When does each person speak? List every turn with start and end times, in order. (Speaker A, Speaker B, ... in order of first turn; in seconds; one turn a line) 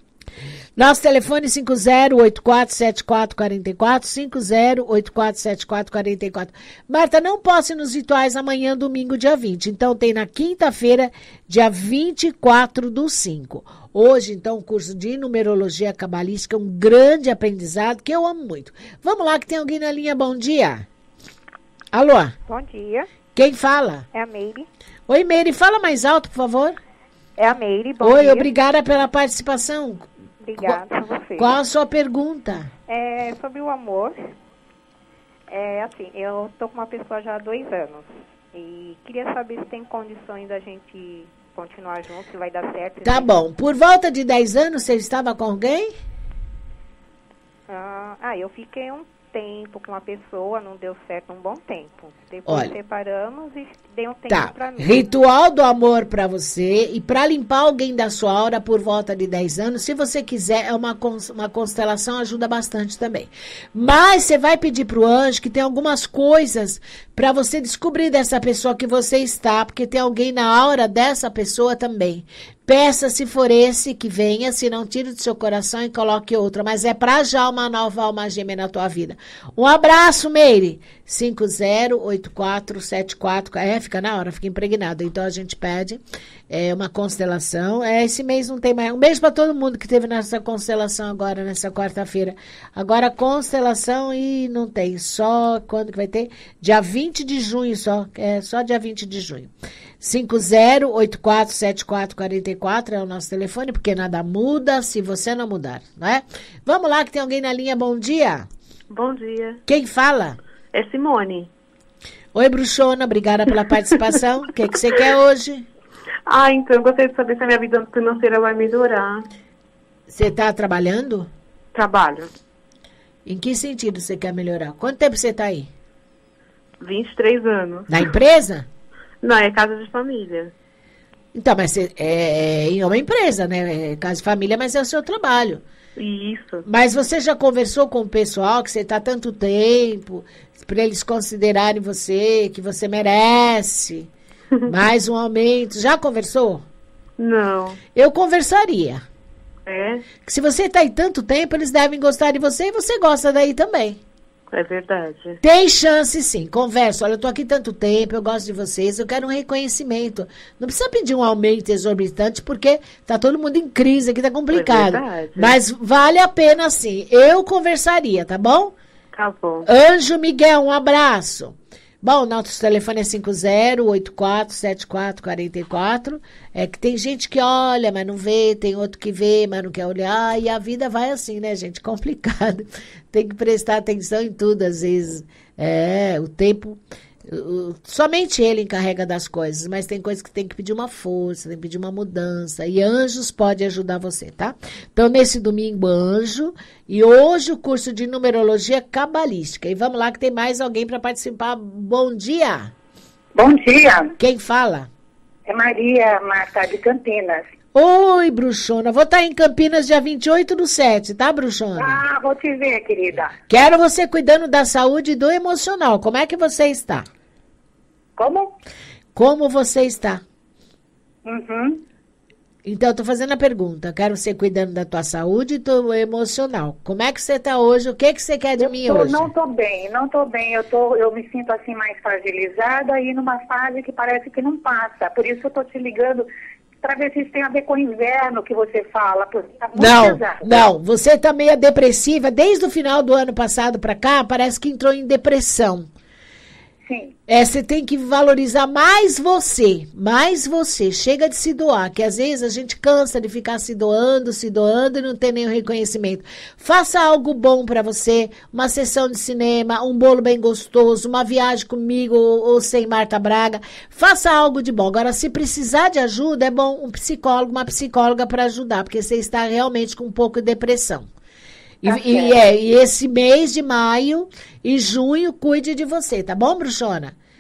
Speaker A: 0.8-20.9
Speaker A: 21.9-22.3
Speaker B: 22.5-23.1
Speaker A: 23.4-24.1
Speaker B: 24.1-24.7
Speaker A: 25.1-26.8
Speaker B: 27.4-28.5
Speaker A: 28.0-30.1
Speaker B: 30.4-31.6
Speaker A: 31.4-32.7
Speaker B: 32.9-34.2
Speaker B: 35.5-43.3
Speaker A: 43.0-45.9
Speaker B: 47.7-55.1
Speaker A: 52.5-52.7
Speaker A: 54.3-99.5
Speaker A: 100.0-108.5
Speaker C: 108.9-109.6
Speaker A: 109.7-110.4
Speaker C: 110.7-111.5
Speaker A: 112.3-115.7
Speaker C: 116.3-119.3
Speaker A: 120.1-121.3
Speaker C: 121.7-122.3
Speaker A: 123.3-125.7
Speaker C: 126.8-128.1
Speaker A: 127.9-128.7
Speaker C: 129.2-130.5
Speaker A: 131.3-135.6
Speaker C: 136.0-136.7
Speaker A: 136.6-144.1
Speaker A: 144.7-146.7
Speaker C: 147.2-147.8
Speaker A: 147.9-149.1
Speaker C: 149.7-150.0
Speaker A: 150.2-154.0
Speaker C: 154.5-155.4
Speaker A: 155.4-168.8
Speaker C: 164.5-165.6
Speaker C: 169.1-169.7
Speaker A: 169.7-202.7
Speaker D: 203.4-204.1
Speaker A: 204.2-204.9
Speaker D: 205.5-207.4
Speaker A: 207.7-212.0
Speaker D: 211.8-213.3
Speaker A: 213.5-217.1
Speaker D: 218.2-218.5
Speaker A: 219.2-220.2
Speaker D: 221.2-221.8
Speaker A: 222.7-229.3
Speaker D: 228.6-236.3
Speaker D: 236.8-240.6
Speaker A: 239.8-245.9
Speaker D: 246.9-247.1
Speaker A: 247.3-271.1
Speaker A: 271.8-277.2
Speaker D: 271.9-272.4